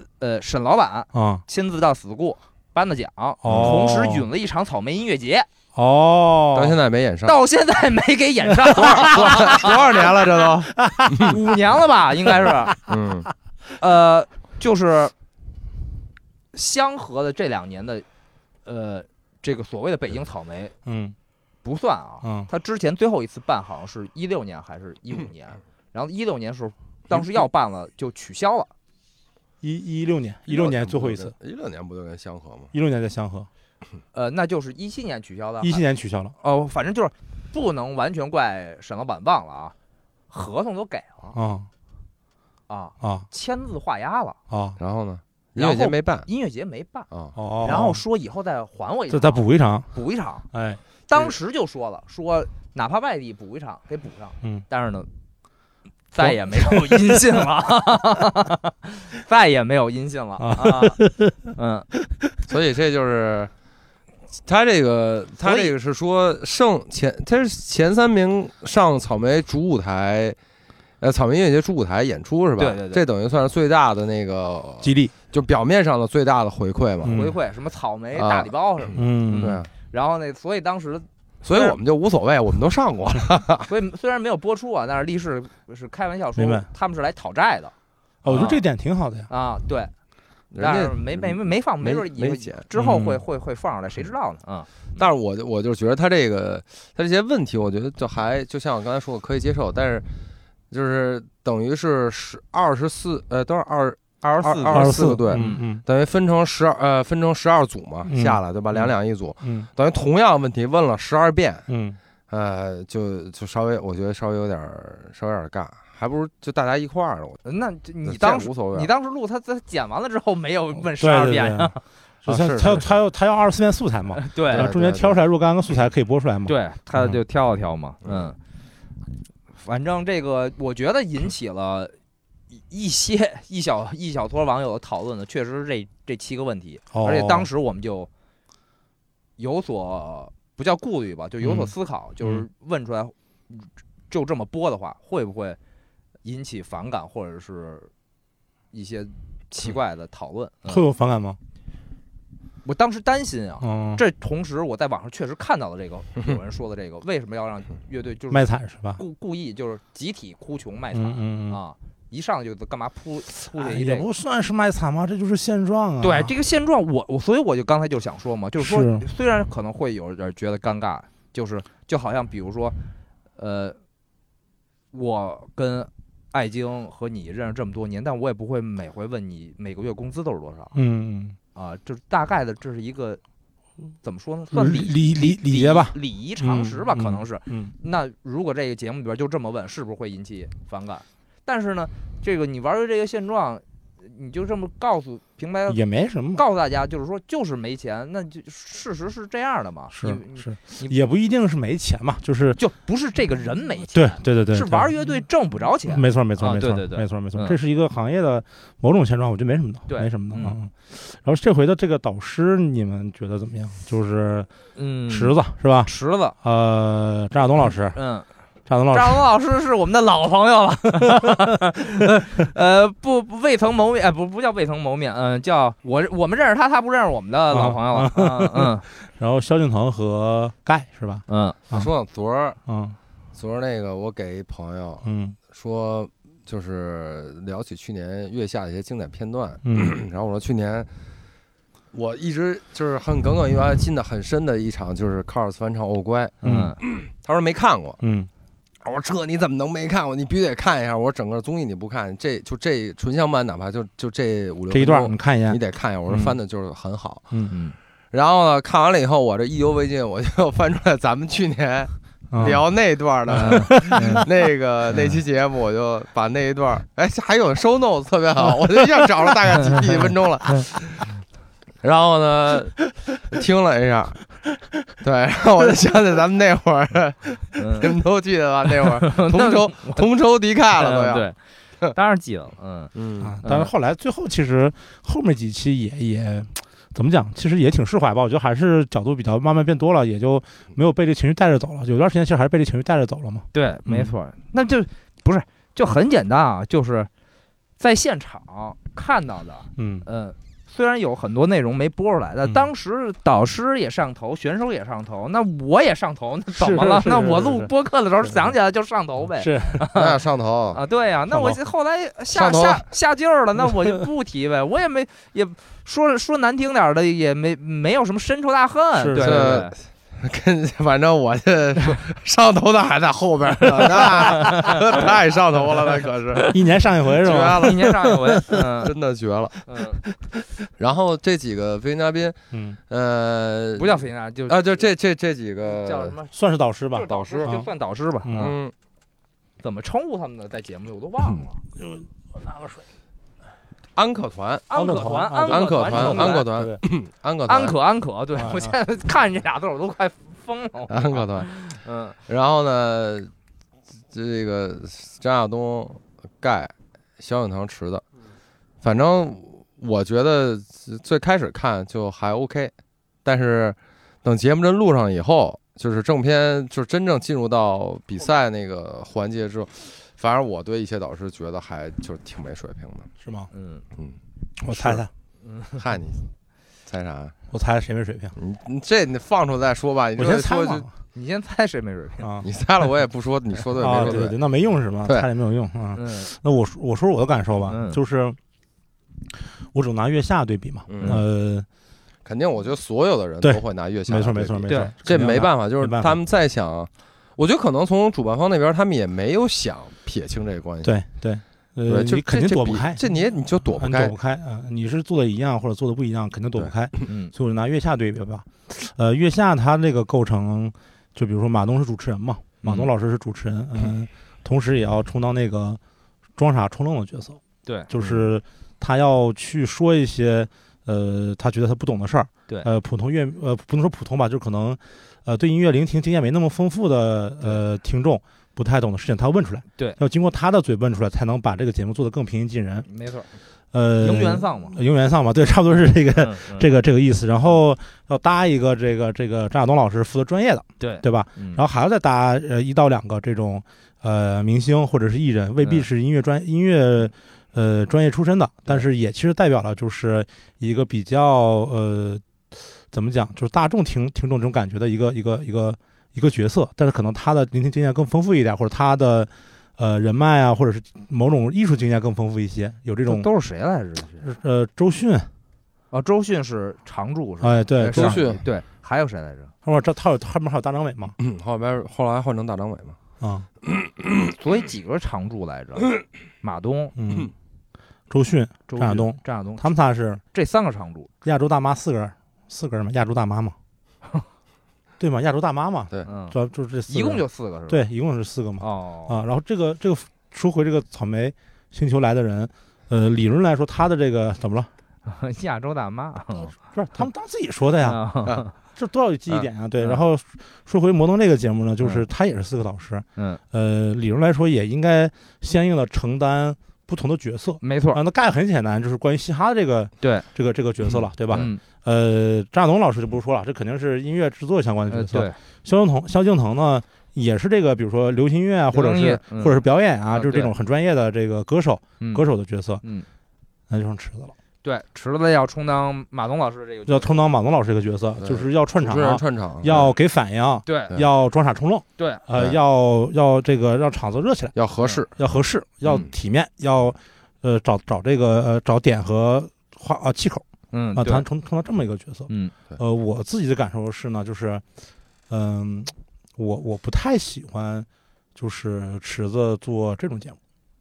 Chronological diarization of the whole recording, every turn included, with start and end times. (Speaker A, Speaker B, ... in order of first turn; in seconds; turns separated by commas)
Speaker A: 0.2-5.5, Speaker B: 1.1-1.4, Speaker B: 3.4-4.2, Speaker C: 3.4-3.8, Speaker B: 5.7-6.8, Speaker C: 6.5-7.3, Speaker A: 7.2-10.3, Speaker B: 8.7-9.7, Speaker C: 8.7-11.3, Speaker B: 10.7-11.4, Speaker A: 11.2-12.8, Speaker C: 12.8-13.3, Speaker A: 13.8-15.1, Speaker A: 16.5-18.1, Speaker A: 18.6-20.7, Speaker B: 20.8-21.1, Speaker A: 21.6-28.7, Speaker B: 22.2-22.5, Speaker B: 29.6-31.3, Speaker C: 30.5-32.7, Speaker B: 32.7-33.5, Speaker A: 34.1-35.8, Speaker B: 35.6-36.3, Speaker A: 36.4-39.7, Speaker A: 40.3-41.4, Speaker B: 41.3-41.7, Speaker A: 42.7-44.4, Speaker B: 43.0-43.3, Speaker B: 44.5-44.8, Speaker C: 44.8-46.3, Speaker A: 45.5-47.1, Speaker C: 47.1-47.4, Speaker B: 47.4-48.0, Speaker A: 47.6-50.5, Speaker B: 49.1-49.9, Speaker B: 50.5-50.8, Speaker A: 51.1-55.1, Speaker A: 56.1-61.0, Speaker B: 56.2-57.4, Speaker B: 60.4-61.5, Speaker A: 61.5-61.9, Speaker B: 62.0-62.4, Speaker C: 62.5-63.5, Speaker C: 64.5-70.4, Speaker A: 65.4-65.7, Speaker C: 71.0-77.1, Speaker A: 72.6-73.0, Speaker B: 74.8-75.1, Speaker B: 77.0-77.3, Speaker A: 77.0-81.8, Speaker C: 78.1-79.7, Speaker B: 79.0-79.6, Speaker C: 81.4-83.7, Speaker A: 83.7-87.7, Speaker B: 86.4-86.7, Speaker B: 88.2-89.3, Speaker A: 88.3-88.7, Speaker A: 89.3-89.9, Speaker C: 90.5-92.6, Speaker A: 90.6-95.0, Speaker B: 92.7-93.2, Speaker C: 95.0-100.0, Speaker C: 100.7-111.7, Speaker A: 104.2-105.6, Speaker B: 104.7-105.8, Speaker B: 108.1-108.9, Speaker B: 109.4-109.7, Speaker B: 111.7-112.0, Speaker C: 112.3-117.4, Speaker A: 117.4-121.8, Speaker C: 118.0-118.9, Speaker B: 121.0-121.7, Speaker C: 122.2-123.0, Speaker B: 122.2-127.2, Speaker A: 124.1-124.7, Speaker C: 124.5-125.2, Speaker A: 126.5-128.4, Speaker C: 128.0-128.3, Speaker A: 129.6-131.9, Speaker A: 132.5-138.1, Speaker B: 136.9-137.5, Speaker A: 139.4-145.6, Speaker B: 141.4-142.4, Speaker A: 146.2-147.9, Speaker A: 148.7-150.8, Speaker B: 150.7-151.4, Speaker A: 152.6-164.1, Speaker B: 153.6-154.0, Speaker B: 158.3-159.0, Speaker B: 160.9-161.6, Speaker B: 163.5-166.3, Speaker A: 166.0-172.8, Speaker B: 168.6-169.0, Speaker A: 173.4-173.8, Speaker A: 174.9-180.7, Speaker B: 180.7-181.4, Speaker A: 181.5-183.2, Speaker A: 184.0-195.8, Speaker B: 184.5-187.7, Speaker B: 195.7-196.4, Speaker A: 196.3-200.9, Speaker B: 199.9-202.6, Speaker A: 202.6-207.6, Speaker B: 203.9-204.9, Speaker B: 205.9-214.5, Speaker A: 209.9-210.6, Speaker A: 214.8-216.3, Speaker B: 215.1-215.9, Speaker B: 216.4-217.9, Speaker A: 217.9-218.3, Speaker B: 218.7-219.2, Speaker A: 218.9-228.8, Speaker B: 227.5-231.9, Speaker A: 231.3-231.6, Speaker C: 231.7-232.6, Speaker B: 232.7-233.0, Speaker C: 233.3-240.9, Speaker B: 235.0-235.4, Speaker B: 239.6-240.0, Speaker C: 241.9-248.0, Speaker B: 246.4-246.8, Speaker A: 246.4-246.8, Speaker B: 248.0-248.3, Speaker C: 248.8-257.2, Speaker B: 254.7-256.3, Speaker A: 257.5-257.8, Speaker C: 258.1-271.1, Speaker B: 262.3-262.6, Speaker B: 263.3-264.2, Speaker A: 263.4-264.2, Speaker C: 271.8-274.2, Speaker C: 275.0-281.3, Speaker A: 277.6-278.0, Speaker A: 278.9-280.1, Speaker A: 280.8-282.9, Speaker C: 282.9-283.3, Speaker B: 283.2-294.1, Speaker A: 283.4-283.7, Speaker A: 293.5-297.1, Speaker A: 297.8-310.2, Speaker B: 299.8-300.1, Speaker B: 306.6-307.7, Speaker B: 309.4-309.9, Speaker C: 309.9-310.8, Speaker A: 310.7-319.8, Speaker B: 311.3-311.6, Speaker C: 312.3-312.8, Speaker B: 319.0-319.6, Speaker C: 319.2-326.6, Speaker B: 326.5-328.6, Speaker C: 327.1-327.9, Speaker A: 327.6-328.9, Speaker C: 328.8-329.6, Speaker A: 329.6-330.0, Speaker C: 330.8-336.1, Speaker B: 332.5-332.8, Speaker A: 333.8-334.8, Speaker A: 335.8-336.3, Speaker B: 336.3-337.7, Speaker A: 336.9-338.6, Speaker C: 337.1-337.5, Speaker B: 338.2-338.5, Speaker C: 338.3-338.7, Speaker A: 339.6-341.6, Speaker B: 341.8-342.8, Speaker C: 343.9-344.7, Speaker A: 344.7-346.5, Speaker B: 344.7-346.8, Speaker C: 345.5-347.8, Speaker A: 347.5-352.1, Speaker B: 348.4-348.7, Speaker C: 350.9-353.3, Speaker C: 354.1-358.0, Speaker C: 358.8-362.7, Speaker C: 363.2-373.1, Speaker B: 373.2-373.5, Speaker A: 373.5-373.8, Speaker C: 373.9-375.1, Speaker B: 374.6-375.1, Speaker A: 375.4-375.8, Speaker C: 375.7-376.2, Speaker C: 376.9-377.3, Speaker B: 377.5-378.3, Speaker C: 378.4-380.9, Speaker B: 380.2-380.9, Speaker A: 381.1-382.3, Speaker B: 382.2-382.5, Speaker C: 382.4-384.4, Speaker B: 383.8-388.4, Speaker A: 385.9-386.3, Speaker A: 387.7-388.0, Speaker B: 389.3-391.7, Speaker C: 390.9-391.2, Speaker C: 392.2-401.0, Speaker B: 393.4-396.2, Speaker A: 394.7-394.9, Speaker B: 400.8-403.0, Speaker C: 401.9-404.1, Speaker B: 403.6-415.8, Speaker A: 407.1-407.3, Speaker A: 412.6-412.9, Speaker B: 416.4-432.9, Speaker A: 432.9-433.3, Speaker B: 433.7-463.3, Speaker A: 434.0-434.8, Speaker A: 436.1-436.7, Speaker A: 440.8-441.6, Speaker A: 445.6-445.9, Speaker A: 463.0-464.2, Speaker B: 464.2-465.3, Speaker A: 465.9-469.5, Speaker B: 467.4-468.2, Speaker C: 467.9-468.4, Speaker B: 469.6-471.1, Speaker C: 471.2-473.0, Speaker B: 473.2-473.4, Speaker A: 474.4-476.9, Speaker B: 476.9-477.3, Speaker B: 478.1-480.2, Speaker A: 478.7-479.6, Speaker A: 480.3-481.1, Speaker B: 481.2-483.6, Speaker B: 485.0-494.7, Speaker A: 486.0-486.3, Speaker A: 486.9-487.8, Speaker A: 488.6-489.2, Speaker A: 495.0-496.6, Speaker B: 496.7-498.0, Speaker A: 497.8-498.5, Speaker B: 498.8-522.8, Speaker A: 503.1-503.4, Speaker A: 507.6-508.0, Speaker A: 510.0-510.2, Speaker C: 510.9-511.5, Speaker A: 511.3-511.6, Speaker A: 514.9-515.4, Speaker A: 518.7-520.5, Speaker A: 522.0-522.2, Speaker B: 523.7-524.3, Speaker A: 524.6-527.1, Speaker B: 526.9-534.5, Speaker C: 528.2-529.9, Speaker A: 530.6-530.9, Speaker C: 534.5-535.1, Speaker B: 535.1-540.4, Speaker A: 540.7-541.2, Speaker B: 541.0-544.6, Speaker A: 542.3-542.5, Speaker B: 545.3-550.4